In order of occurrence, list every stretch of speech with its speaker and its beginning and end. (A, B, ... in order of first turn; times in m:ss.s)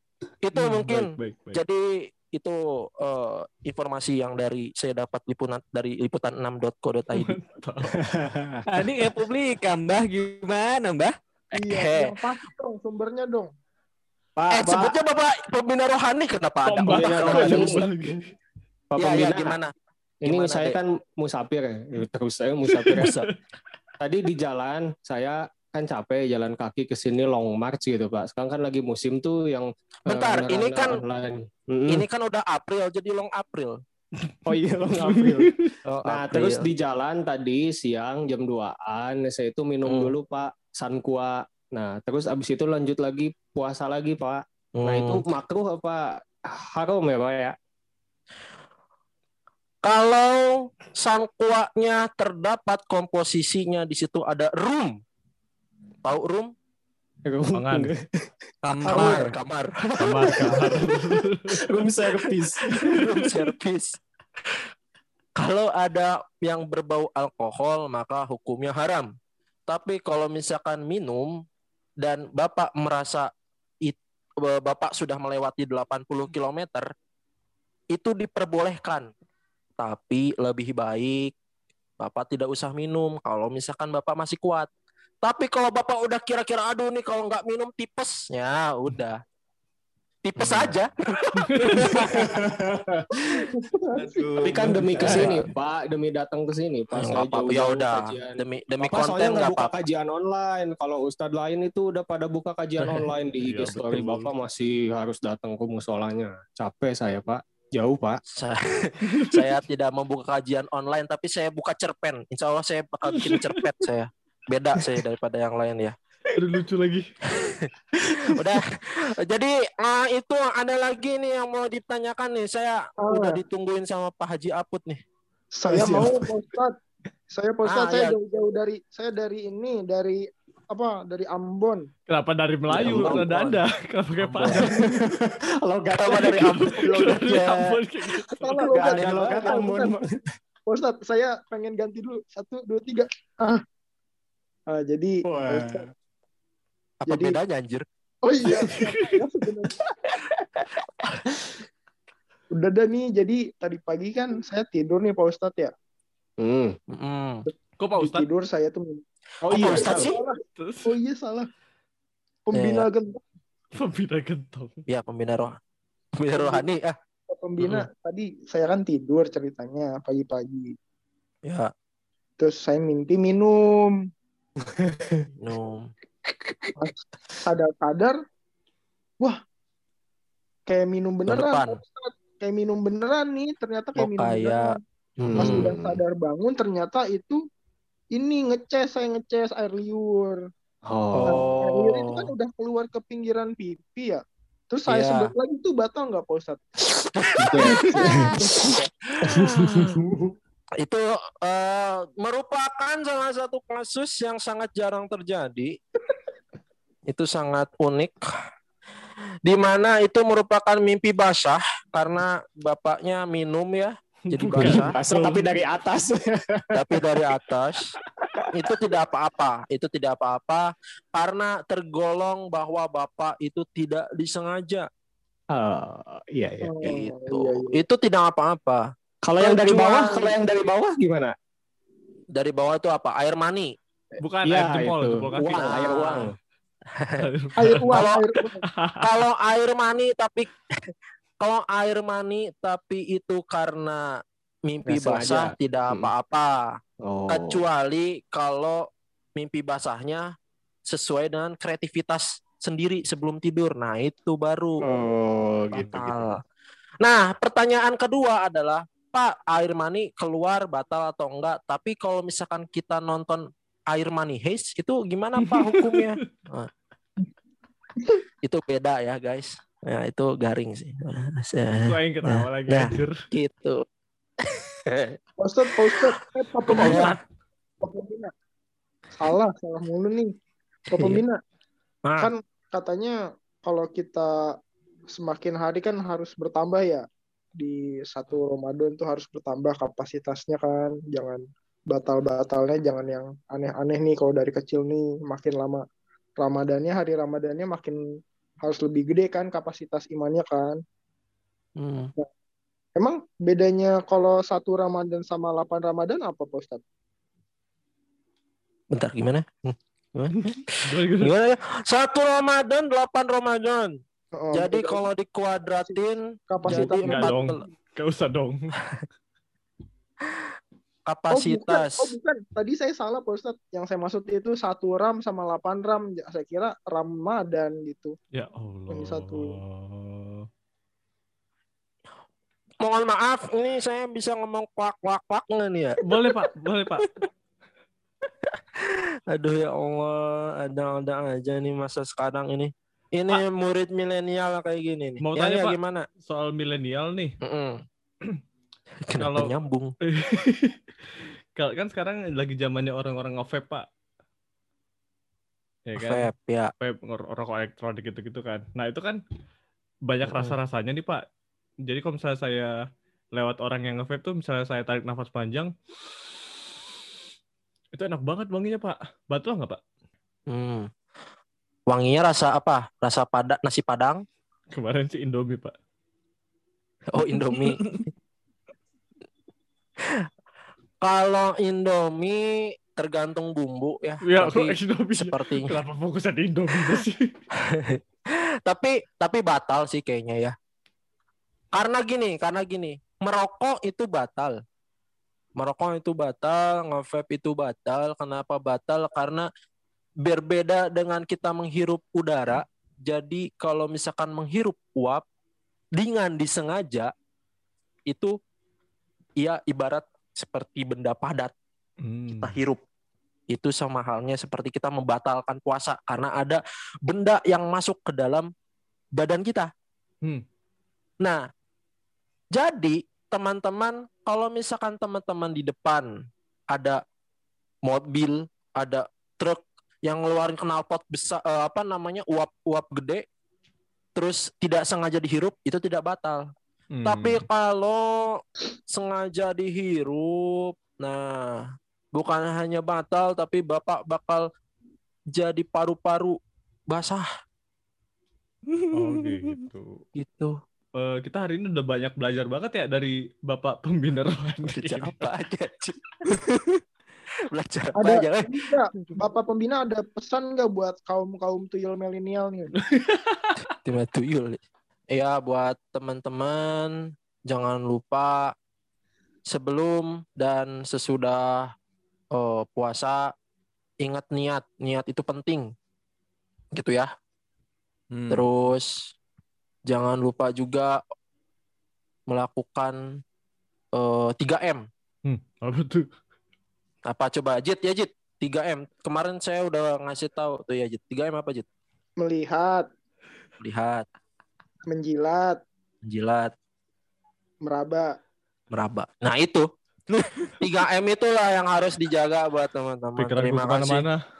0:00.4-0:07.3 A
0:00.5-0:01.6 B
0:07.1-0:08.0 B
0:07.9-0:08.6 C
0:08.7-0:11.1 D
0:11.5-0:12.2 A
0:11.5-0:13.5 E
0:14.4-0:15.0 C
0:14.5-0:17.8 A
0:16.6-0:18.2 B
0:16.9-0:17.9 C
0:18.9-0:19.6 C
0:19.0-0:19.7 A
0:20.2-0:23.2 C
0:20.2-0:20.8 A
0:22.6-0:23.3 B
0:22.9-0:23.2 A
0:24.0-0:32.1 C
0:30.1-0:31.0 A
0:31.9-0:33.8 A
0:34.4-0:47.6 C
0:35.0-0:35.7 B
0:36.0-0:36.7 A
0:39.8-0:40.1 A
0:44.8-0:45.2 A
0:49.8-0:55.0 A
0:56.0-0:56.5 A
0:57.3-0:58.3 C
0:57.5-0:57.9 B
0:58.6-0:59.4 D
0:58.8-1:00.6 A
1:00.0-1:01.5 B
1:00.2-1:03.0 C
1:02.9-1:04.0 A
1:05.4-1:09.1 A
1:09.7-1:11.3 A
1:12.0-1:13.3 A
1:13.8-1:16.9 A
1:17.9-1:19.1 A
1:19.8-1:21.3 A
1:22.0-1:24.7 A
1:25.2-1:29.2 A
1:30.2-1:32.1 A
1:30.4-1:30.7 D
1:31.5-1:32.0 B
1:31.9-1:33.4 C
1:33.2-1:34.3 E
1:34.0-1:35.5 D
1:34.4-1:48.2 C
1:37.0-1:39.7 A
1:42.8-1:44.3 B
1:48.3-1:55.9 A
1:49.1-1:49.5 B
1:53.1-1:53.6 B
1:54.8-1:55.0 C
1:56.4-1:57.0 B
1:58.0-1:58.2 C
1:58.3-2:05.0 A
2:03.0-2:03.4 E
2:05.5-2:06.7 E
2:05.7-2:06.3 C
2:07.3-2:11.9 E
2:07.6-2:08.2 A
2:12.1-2:14.7 B
2:12.7-2:13.3 C
2:12.8-2:13.6 A
2:14.2-2:14.7 A
2:14.4-2:17.1 C
2:16.0-2:17.8 A
2:16.1-2:18.8 B
2:18.1-2:20.3 C
2:18.4-2:20.0 E
2:18.8-2:19.4 A
2:20.7-2:23.6 E
2:24.7-2:25.8 E
2:25.3-2:25.9 C
2:27.0-2:27.8 A
2:27.1-2:27.4 E
2:28.2-2:29.8 E
2:28.5-2:28.9 C
2:32.5-2:35.7 E
2:36.4-2:36.8 C
2:36.9-2:37.5 A
2:37.5-2:39.0 E
2:37.8-2:38.2 B
2:39.4-2:40.2 C
2:39.5-2:40.2 A
2:39.6-2:41.5 E
2:40.6-2:41.0 B
2:42.5-2:43.2 E
2:42.5-2:42.9 A
2:43.8-2:44.8 B
2:44.9-2:45.5 A
2:46.2-2:47.0 A
2:46.4-2:46.7 E
2:47.3-2:50.7 E
2:47.6-2:47.9 A
2:51.5-2:51.7 A
2:52.4-2:53.9 E
2:54.7-2:55.3 C
2:55.4-2:55.8 A
2:56.8-2:58.2 E
3:00.7-3:04.8 E
3:01.3-3:01.8 A
3:04.0-3:04.7 A
3:05.2-3:05.7 A
3:05.2-3:06.0 C
3:05.4-3:07.4 E
3:08.1-3:10.4 E
3:10.9-3:11.6 C
3:11.1-3:12.3 A
3:11.2-3:16.6 E
3:14.9-3:15.3 A
3:17.0-3:19.8 A
3:17.4-3:20.3 C
3:17.5-3:18.6 E
3:20.8-3:25.7 A
3:27.1-3:28.2 A
3:29.4-3:35.0 A
3:34.3-3:35.6 B
3:34.6-3:37.0 C
3:36.8-3:37.8 A
3:38.5-3:44.9 A
3:45.5-3:46.8 C
3:46.6-3:47.8 E
3:46.8-3:48.9 A
3:49.2-3:51.4 C
3:49.4-3:50.3 A
3:52.3-3:53.7 A
3:54.2-3:56.2 B
3:54.4-3:56.3 C
3:55.4-3:56.3 A
3:57.2-3:58.0 B
3:57.6-3:58.6 E
3:57.9-3:58.2 A
3:58.7-3:59.0 B
3:59.0-4:00.5 A
4:01.4-4:04.1 A
4:04.7-4:06.8 A
4:04.9-4:06.1 C
4:07.0-4:07.7 C
4:07.3-4:08.8 A
4:09.4-4:10.3 A
4:10.9-4:14.8 A
4:14.8-4:16.3 C
4:15.7-4:16.4 A
4:17.0-4:26.7 A
4:25.4-4:26.0 B
4:28.4-4:33.8 A
4:31.8-4:33.1 B
4:34.9-4:35.2 A
4:35.4-4:37.1 E
4:36.7-4:37.2 B
4:36.7-4:37.2 A
4:37.8-4:38.3 E
4:39.2-4:40.3 E
4:40.9-4:41.4 E
4:41.0-4:41.2 A
4:42.0-4:42.3 A
4:42.2-4:44.3 E
4:45.2-4:47.0 E
4:47.6-4:55.8 E
4:56.4-4:58.0 E
4:58.6-5:00.8 E
5:01.8-5:02.1 A
5:03.0-5:06.8 E
5:08.9-5:14.0 A
5:10.4-5:11.3 B
5:14.4-5:15.0 E
5:14.5-5:17.6 A
5:15.8-5:17.4 E
5:16.6-5:18.8 B
5:21.1-5:22.1 A
5:21.3-5:28.2 E
5:28.3-5:30.4 B
5:28.9-5:29.5 E
5:32.8-5:36.0 A
5:36.0-5:37.2 B
5:38.8-5:46.0 A
5:45.2-5:47.4 B
5:47.4-5:47.8 A
5:49.1-5:49.9 A
5:49.2-5:49.5 B
5:50.0-5:50.8 B
5:51.6-5:53.8 B
5:55.9-5:59.2 B
5:56.0-5:56.7 A
6:00.1-6:01.2 B
6:01.9-6:02.7 B
6:03.4-6:05.7 B
6:07.9-6:09.8 B
6:10.5-6:10.9 A
6:11.9-6:14.2 A
6:14.7-6:15.7 B
6:17.1-6:18.0 A
6:21.0-6:25.8 A
6:24.2-6:27.2 B
6:27.7-6:28.0 A
6:28.7-6:30.6 A
6:31.7-6:34.6 A
6:35.6-6:39.5 A
6:40.2-6:45.2 A
6:46.0-6:47.1 A
6:48.1-6:48.3 A
6:49.4-6:51.5 A
6:52.0-6:52.5 B
6:52.3-6:52.8 A
6:53.5-6:58.5 A
6:59.2-6:59.7 A
7:02.5-7:06.1 A
7:06.7-7:07.0 A
7:07.8-7:13.2 A
7:14.2-7:16.5 A
7:17.0-7:17.4 B
7:17.0-7:21.5 A
7:22.1-7:24.5 A
7:25.3-7:26.4 A
7:26.9-7:27.2 A
7:28.9-7:30.0 B
7:30.2-7:30.5 A
7:31.0-7:35.2 B
7:34.7-7:36.0 A
7:37.5-7:38.7 A
7:38.0-7:42.7 E
7:42.9-7:43.6 B
7:43.8-7:44.6 A
7:45.1-7:47.0 A
7:47.5-7:48.5 A
7:49.5-7:51.7 A
7:52.4-7:53.3 A
7:54.0-7:55.7 A
7:56.7-7:57.1 A
7:58.1-7:58.5 D
7:58.3-7:58.9 A
7:59.9-8:01.0 A
8:02.3-8:03.0 A
8:04.0-8:04.8 A
8:05.2-8:06.1 B
8:07.1-8:11.7 A
8:12.2-8:12.9 E
8:13.6-8:14.1 A
8:14.9-8:15.6 E
8:16.0-8:16.5 A
8:17.7-8:18.1 E
8:18.7-8:19.7 A
8:20.1-8:20.5 D
8:20.6-8:24.1 A
8:23.2-8:24.2 B